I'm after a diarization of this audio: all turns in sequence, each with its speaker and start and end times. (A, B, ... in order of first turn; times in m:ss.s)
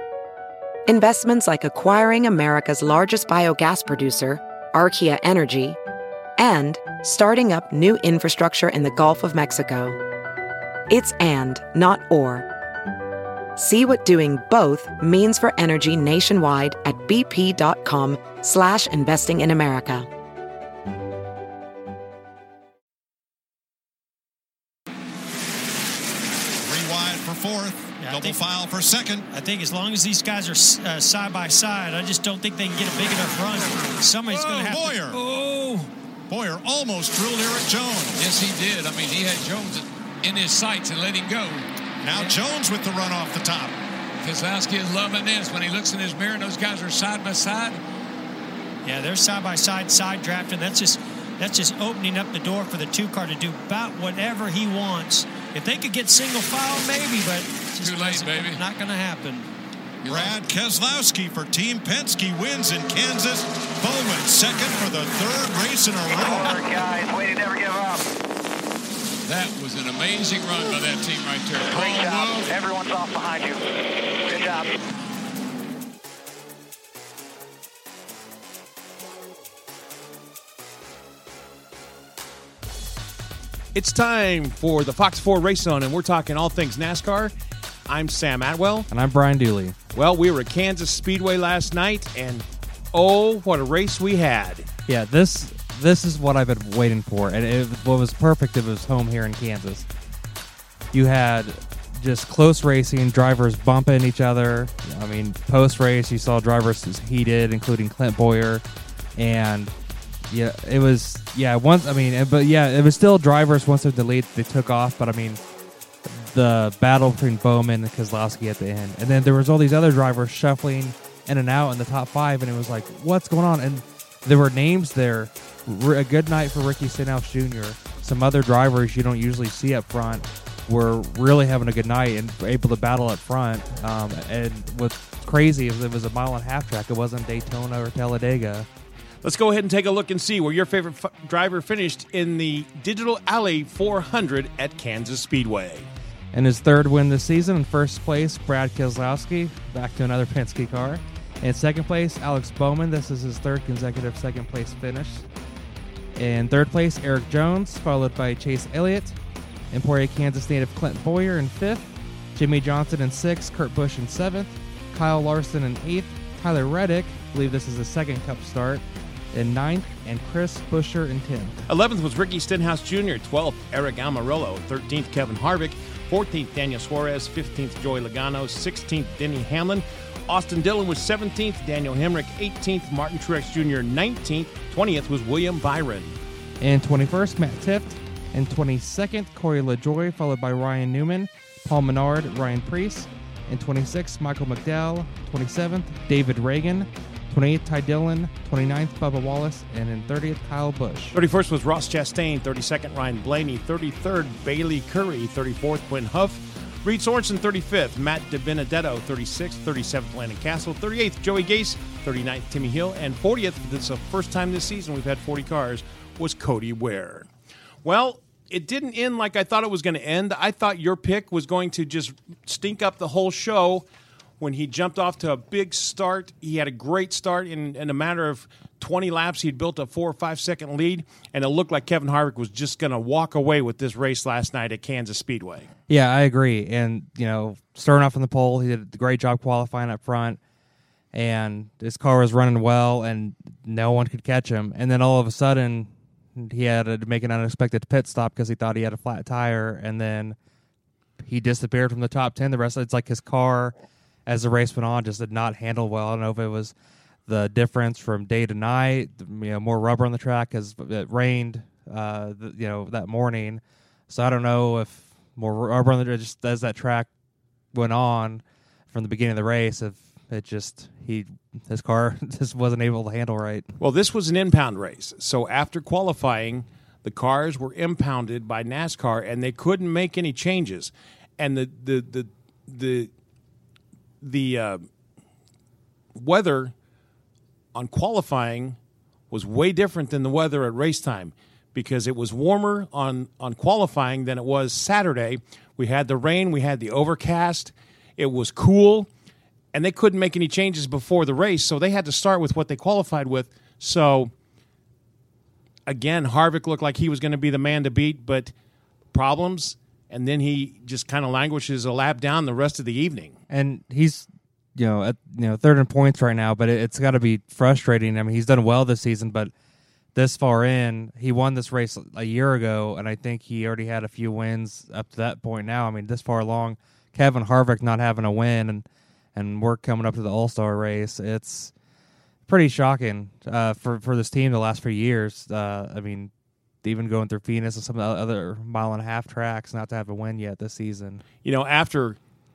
0:00.9-0:05.8 A
0:06.4-0:10.0 A
0:10.9-0:12.5 A
0:13.6-0:20.1 A
0:26.6-0:29.3 B
0:28.0-0:28.4 C
0:29.3-0:35.9 C
0:34.2-0:35.2 B
0:36.3-0:38.2 B
0:38.2-0:42.4 D
0:42.0-0:43.7 B
0:44.2-0:47.8 D
0:48.8-0:59.5 C
0:57.8-0:58.6 D
1:00.0-1:00.4 D
1:00.1-1:06.6 B
1:06.1-1:08.1 E
1:09.3-1:12.5 D
1:11.7-1:13.6 E
1:14.2-1:14.8 E
1:23.7-1:27.3 F
1:27.9-1:28.9 F
1:28.9-1:29.8 G
1:30.0-1:34.7 F
1:34.9-1:39.9 G
1:40.9-1:48.6 G
1:49.2-1:49.7 G
1:50.3-1:55.4 G
1:56.1-2:18.7 G
2:19.2-2:25.9 F
2:26.3-2:35.3 G
2:36.2-2:39.2 G
2:39.7-2:51.6 G
2:51.7-3:06.2 F
3:06.6-3:21.2 G
3:21.1-3:37.3 F
3:37.8-3:43.9 F
3:44.4-3:55.7 F
3:55.9-4:00.4 G
4:01.1-4:10.4 G
4:11.2-4:16.8 G
4:17.3-4:27.1 G
4:27.7-4:33.7 G
4:33.8-4:43.1 F
4:44.2-4:44.9 F
4:46.2-4:46.7 F
4:47.7-4:48.8 F
4:49.3-4:59.1 F
4:59.7-5:04.3 F
5:05.9-5:08.5 F
5:09.1-5:13.4 F
5:13.5-5:19.5 G
5:20.2-5:31.7 G
5:32.5-5:36.3 G
5:36.8-5:41.2 G
5:41.4-5:42.2 F